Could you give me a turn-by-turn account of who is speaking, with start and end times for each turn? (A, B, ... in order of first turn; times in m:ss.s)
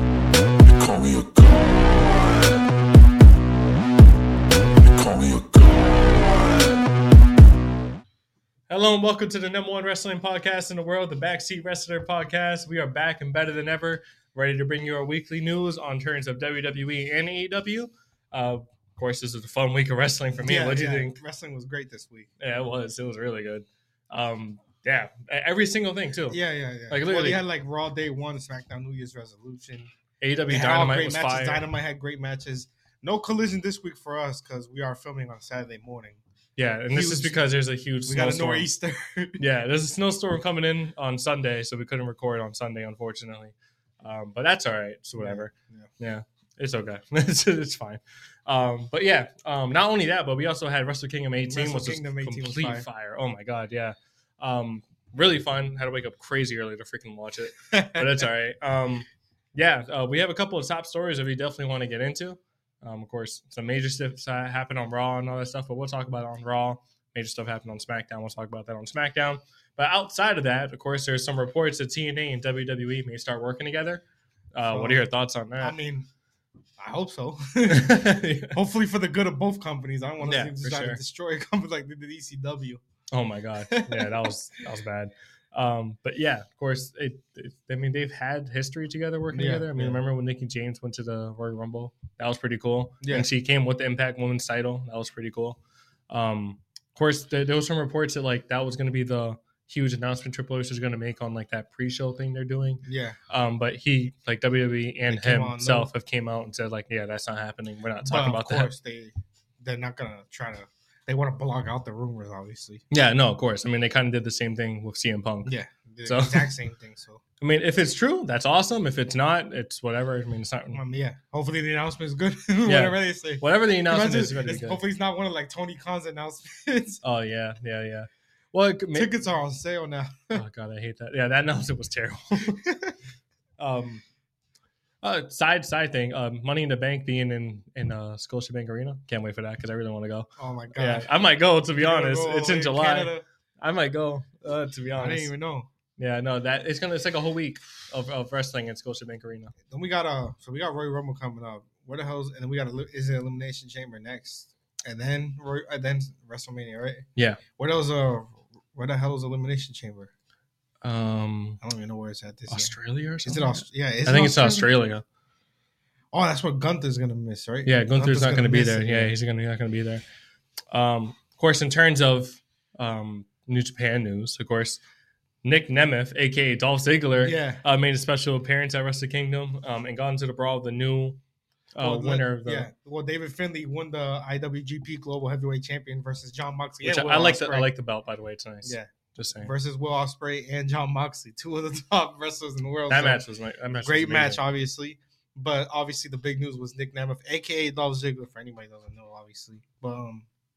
0:00.6-0:01.8 A
0:04.8-0:06.4 A
0:08.7-0:21.2 B
0:20.4-0:22.3 C
0:22.4-0:27.4 B
0:26.3-0:29.9 C
0:30.2-0:31.6 B
0:30.5-0:36.2 C
0:36.6-0:38.7 B
0:36.9-0:37.5 C
0:38.0-0:39.4 C
0:39.4-1:14.0 B
0:45.2-0:45.9 C
0:51.5-0:52.9 C
0:57.7-0:58.2 C
1:14.5-1:15.8 B
1:14.7-1:15.1 C
1:15.6-1:16.1 C
1:16.8-1:22.8 C
1:17.7-1:18.6 B
1:20.2-1:21.0 B
1:23.1-1:48.7 B
1:23.7-1:24.3 C
1:29.3-1:30.0 C
1:33.0-1:33.3 C
1:42.8-1:43.2 C
1:45.1-1:45.9 C
1:48.0-1:52.8 C
1:52.9-1:55.5 B
1:55.4-1:57.2 C
1:56.0-1:56.5 B
1:57.4-2:00.8 B
2:00.7-2:07.0 C
2:02.6-2:04.8 B
2:07.0-2:09.1 B
2:08.9-2:10.4 C
2:10.3-2:12.7 B
2:12.6-2:12.9 C
2:13.6-2:14.0 B
2:15.0-2:25.3 B
2:20.4-2:21.1 C
2:21.7-2:23.2 C
2:25.0-2:25.7 C
2:26.0-2:29.5 B
2:29.7-2:37.0 C
2:37.2-2:37.4 B
2:37.6-2:40.1 C
2:40.8-2:41.6 B
2:41.6-2:44.7 C
2:42.5-2:45.0 B
2:46.1-2:49.1 C
2:47.6-2:50.0 B
2:50.7-2:54.8 B
2:55.4-3:01.2 B
2:57.2-2:57.6 C
3:01.7-3:02.7 B
3:01.8-3:07.7 C
3:06.8-3:09.5 B
3:08.6-3:08.9 C
3:09.4-3:13.2 C
3:12.9-3:14.4 B
3:13.8-3:20.3 C